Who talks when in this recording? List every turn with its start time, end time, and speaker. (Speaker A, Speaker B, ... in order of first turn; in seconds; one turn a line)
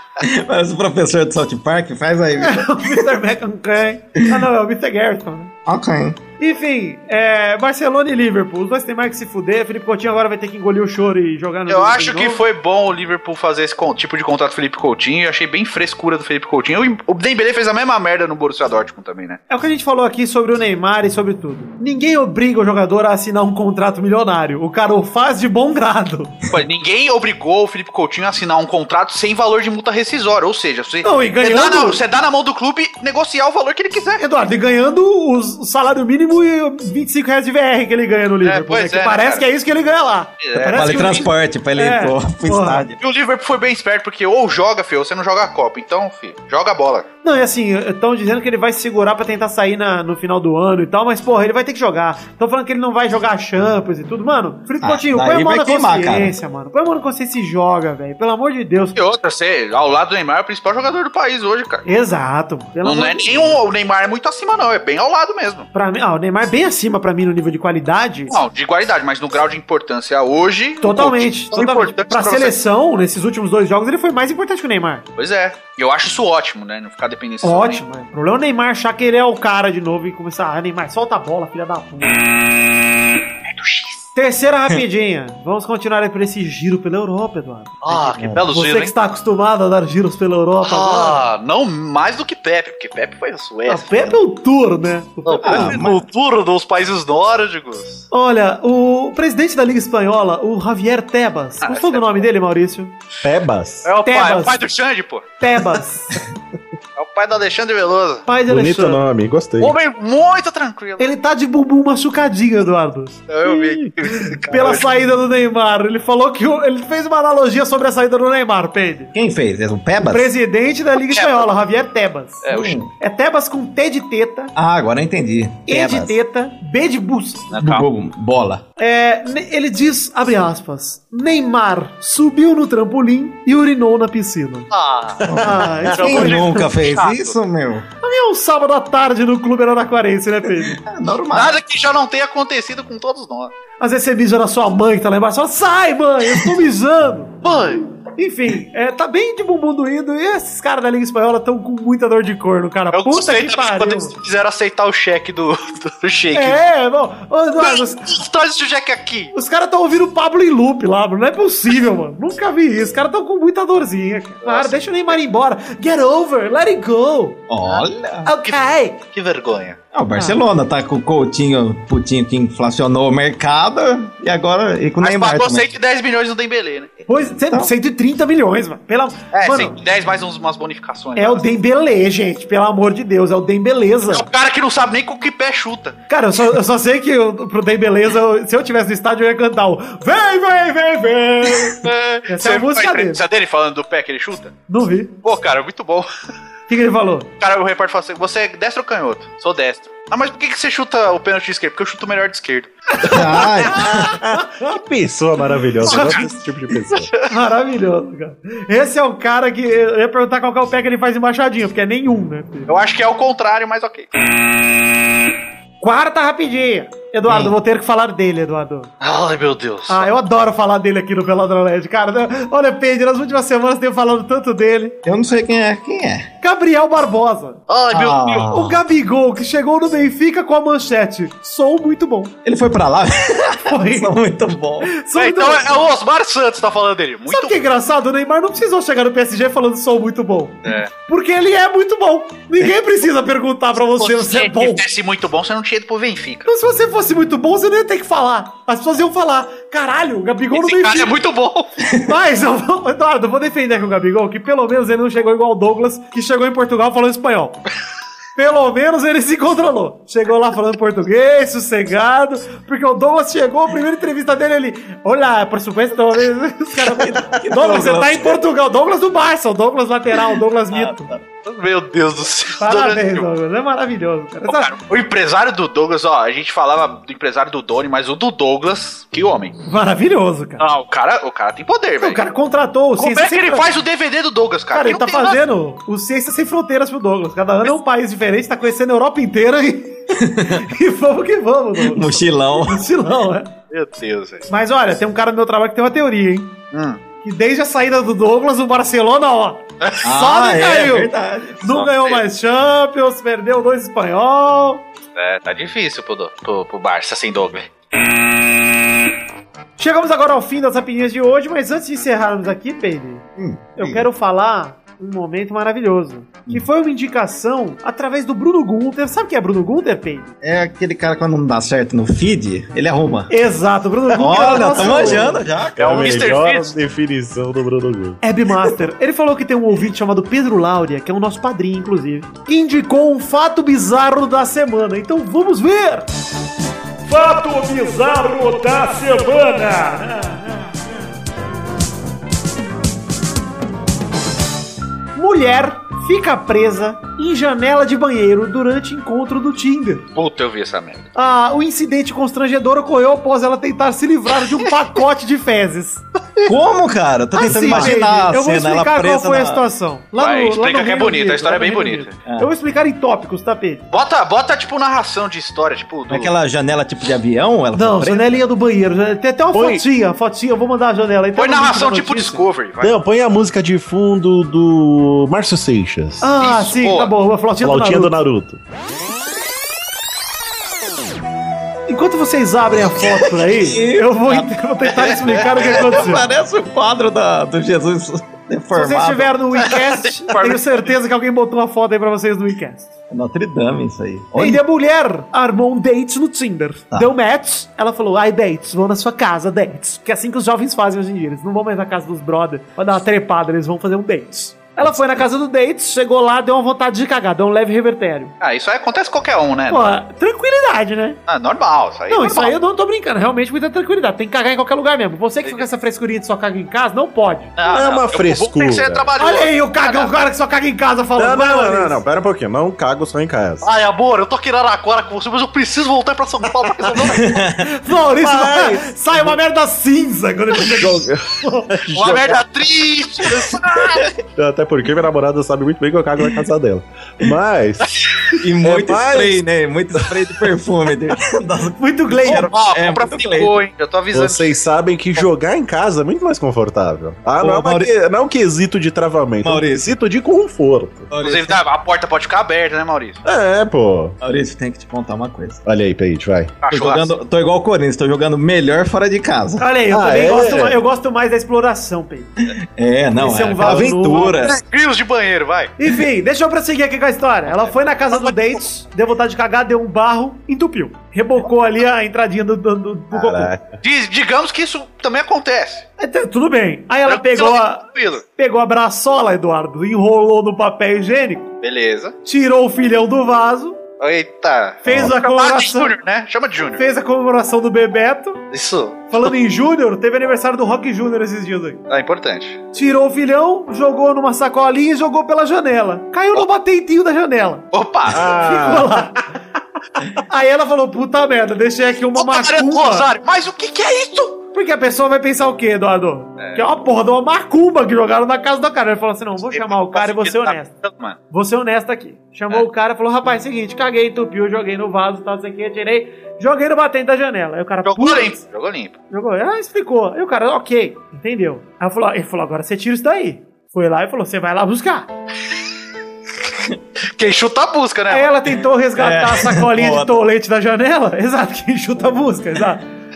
Speaker A: 0.2-3.1
Speaker B: 2.4-5.5
Speaker A: 5.7-6.2
Speaker B: 6.4-12.4
Speaker C: 11.7-19.4
Speaker B: 19.5-26.3
Speaker C: 26.5-34.2
Speaker B: 31.0-32.0
Speaker B: 34.2-42.8
Speaker C: 38.4-39.5
Speaker C: 40.4-41.2
Speaker A: 40.7-43.0
Speaker C: 43.0-47.0
Speaker B: 47.2-59.0
Speaker A: 54.8-56.3
Speaker C: 59.0-61.8
Speaker B: 61.9-63.6
Speaker C: 62.8-65.7
Speaker B: 65.7-68.3
Speaker C: 68.3-72.5
Speaker B: 70.8-75.0
Speaker C: 75.2-77.8
Speaker B: 77.4-82.2
Speaker C: 83.5-84.0
Speaker B: 84.2-91.2
Speaker C: 87.8-88.9
Speaker C: 90.6-94.1
Speaker B: 93.7-95.8
Speaker C: 95.2-98.0
Speaker A: 95.4-96.0
Speaker B: 98.1-102.9
Speaker C: 101.6-102.2
Speaker D: 103.2-103.9
Speaker C: 103.8-105.2
Speaker B: 104.0-104.6
Speaker B: 105.4-106.2
Speaker C: 107.0-108.2
Speaker B: 108.3-109.0
Speaker D: 108.5-109.7
Speaker C: 109.6-111.1
Speaker B: 111.0-119.1
Speaker C: 113.3-115.0
Speaker A: 119.1-120.3
Speaker B: 120.0-124.5
Speaker C: 121.0-121.5
Speaker C: 122.4-122.8
Speaker A: 122.5-122.9
Speaker A: 124.5-126.2
Speaker B: 125.7-127.5
Speaker C: 127.5-127.8
Speaker A: 127.5-128.6
Speaker B: 128.8-134.7
Speaker C: 134.7-135.3
Speaker A: 135.2-137.8
Speaker B: 135.4-136.7
Speaker C: 136.0-137.3
Speaker B: 138.0-140.8
Speaker A: 140.6-141.6
Speaker C: 141.3-143.5
Speaker B: 143.8-147.4
Speaker C: 147.4-147.8
Speaker B: 148.2-154.1
Speaker C: 152.9-156.6
Speaker B: 156.3-158.2
Speaker C: 157.6-159.3
Speaker B: 159.3-167.4
Speaker C: 164.4-165.1
Speaker A: 167.5-168.3
Speaker B: 168.2-169.0
Speaker C: 168.4-169.8
Speaker A: 169.9-175.7
Speaker C: 175.0-176.9
Speaker B: 177.1-179.8
Speaker C: 179.3-181.5
Speaker B: 181.2-184.2
Speaker C: 184.1-185.9
Speaker B: 186.1-193.2
Speaker C: 191.8-194.5
Speaker B: 194.7-195.1
Speaker C: 195.2-196.1
Speaker B: 196.7-197.3
Speaker C: 197.4-202.7
Speaker A: 203.0-204.1
Speaker D: 204.2-207.1
Speaker B: 204.3-204.7
Speaker C: 205.8-206.2
Speaker B: 205.8-206.3
Speaker C: 206.8-207.3
Speaker B: 207.3-212.7
Speaker C: 212.7-214.1
Speaker B: 215.8-218.9
Speaker A: 217.3-217.5
Speaker C: 219.0-220.1
Speaker B: 219.9-225.0
Speaker A: 225.0-226.3
Speaker B: 226.4-227.6
Speaker C: 227.7-228.6
Speaker A: 227.9-228.8
Speaker B: 228.5-232.3
Speaker A: 232.4-234.9
Speaker B: 233.7-234.1
Speaker B: 234.9-235.8
Speaker C: 235.2-237.6
Speaker B: 237.3-244.8
Speaker C: 240.6-240.9
Speaker C: 243.9-246.5
Speaker B: 246.4-251.1
Speaker C: 250.5-251.7
Speaker B: 252.0-257.6
Speaker B: 258.4-271.1
Speaker A: 266.8-268.4
Speaker A: 270.7-271.2
Speaker C: 271.4-273.3
Speaker B: 272.6-274.7
Speaker C: 274.5-279.5
Speaker B: 279.7-280.6
Speaker C: 280.6-282.2
Speaker B: 282.0-283.7
Speaker C: 283.0-285.4
Speaker B: 284.7-293.5
Speaker A: 290.2-290.6
Speaker A: 291.8-292.8
Speaker C: 293.7-294.4
Speaker B: 294.5-296.5
Speaker C: 296.7-297.0
Speaker B: 297.2-301.1
Speaker A: 300.0-301.7
Speaker B: 301.6-304.8
Speaker C: 301.7-302.2
Speaker C: 305.1-307.7
Speaker B: 309.8-313.2
Speaker A: 313.4-314.1
Speaker B: 313.8-320.3
Speaker A: 320.4-323.3
Speaker B: 323.3-325.4
Speaker A: 324.1-326.2
Speaker D: 324.8-328.2
Speaker C: 325.8-326.7
Speaker B: 328.2-336.1
Speaker B: 337.1-340.5
Speaker B: 345.1-350.0
Speaker C: 350.1-351.1
Speaker B: 351.1-356.0
Speaker A: 356.4-359.6
Speaker B: 357.3-363.9
Speaker C: 360.2-362.1
Speaker C: 363.9-366.3
Speaker A: 366.1-368.4
Speaker B: 367.7-372.4
Speaker D: 369.5-369.8
Speaker C: 371.4-372.9
Speaker D: 372.8-376.3
Speaker B: 376.2-378.1
Speaker C: 376.4-377.1
Speaker D: 377.6-378.6
Speaker B: 381.9-386.2
Speaker A: 383.1-384.5
Speaker C: 385.0-385.6
Speaker A: 385.3-389.3
Speaker B: 388.7-392.9
Speaker C: 390.0-390.8
Speaker A: 393.1-394.6
Speaker B: 394.4-408.3
Speaker C: 408.4-409.8
Speaker B: 409.7-411.2
Speaker C: 411.3-412.5
Speaker B: 412.1-417.6
Speaker C: 417.6-420.1
Speaker D: 417.6-419.1
Speaker B: 419.2-422.0
Speaker D: 421.2-423.7
Speaker C: 423.6-427.4
Speaker A: 427.0-427.7
Speaker B: 427.6-431.7
Speaker D: 428.1-429.4
Speaker D: 430.6-432.4
Speaker C: 431.9-434.1
Speaker A: 433.8-434.1
Speaker D: 434.4-437.9
Speaker C: 438.0-438.4
Speaker A: 438.4-443.6
Speaker D: 438.6-439.4
Speaker B: 441.8-442.5
Speaker C: 442.3-444.6
Speaker D: 444.1-451.1
Speaker A: 447.4-447.9
Speaker A: 449.4-450.0
Speaker A: 451.1-451.6
Speaker C: 451.2-453.2
Speaker D: 453.2-454.2
Speaker A: 454.2-455.6
Speaker D: 455.6-456.6
Speaker C: 456.6-457.1
Speaker A: 456.7-459.7
Speaker B: 459.6-462.3
Speaker D: 459.9-460.8
Speaker A: 462.5-464.6
Speaker B: 463.2-464.4
Speaker C: 464.4-465.7
Speaker B: 465.8-473.5
Speaker D: 473.1-473.8
Speaker C: 473.8-475.8
Speaker B: 476.0-477.8
Speaker C: 477.1-478.2
Speaker B: 478.4-481.5
Speaker C: 481.6-482.1
Speaker B: 482.2-483.8
Speaker C: 484.0-486.8
Speaker B: 484.8-485.9
Speaker B: 486.8-488.4
Speaker C: 488.5-489.3
Speaker B: 489.1-491.8
Speaker C: 491.9-492.6
Speaker B: 492.7-497.6
Speaker C: 497.7-498.2
Speaker D: 498.1-499.1
Speaker B: 498.2-499.3
Speaker B: 500.1-503.1
Speaker C: 502.1-504.4
Speaker B: 504.5-510.7
Speaker C: 509.5-511.2
Speaker B: 511.3-518.4
Speaker C: 517.8-518.9
Speaker B: 519.1-525.1
Speaker C: 527.1-528.3
Speaker B: 528.1-532.9
Speaker A: 529.0-530.1